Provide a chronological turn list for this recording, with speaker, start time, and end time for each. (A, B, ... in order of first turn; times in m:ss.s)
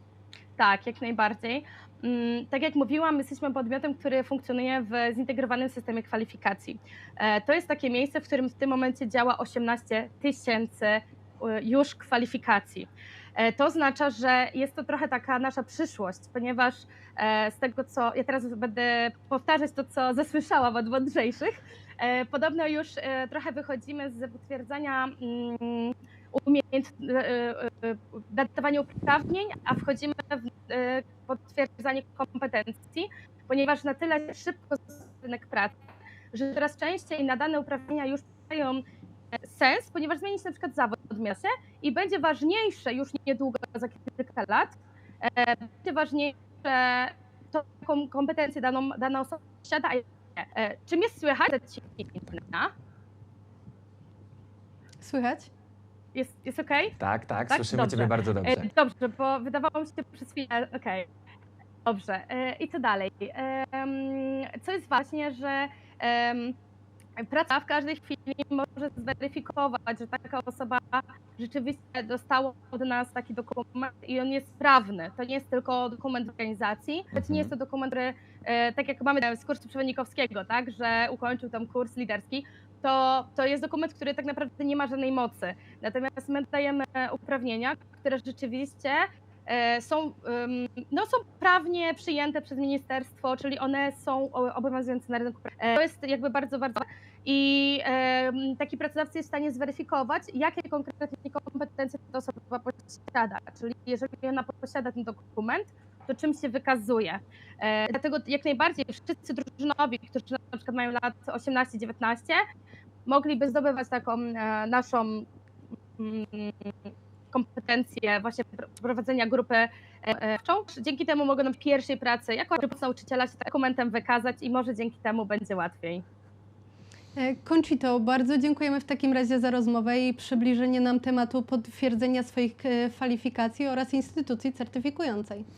0:00.6-0:35.8 A
0:36.3-0:38.8 A
0:39.4-0:52.7 A
0:55.0-0:55.5 B
0:56.2-0:57.0 A
0:57.0-0:58.7 C
0:57.5-1:01.1 A
1:01.8-1:06.6 A
1:07.2-1:52.4 A
1:17.1-1:17.5 C
1:53.1-1:55.3 A
1:56.0-2:06.0 A
2:07.2-2:15.5 B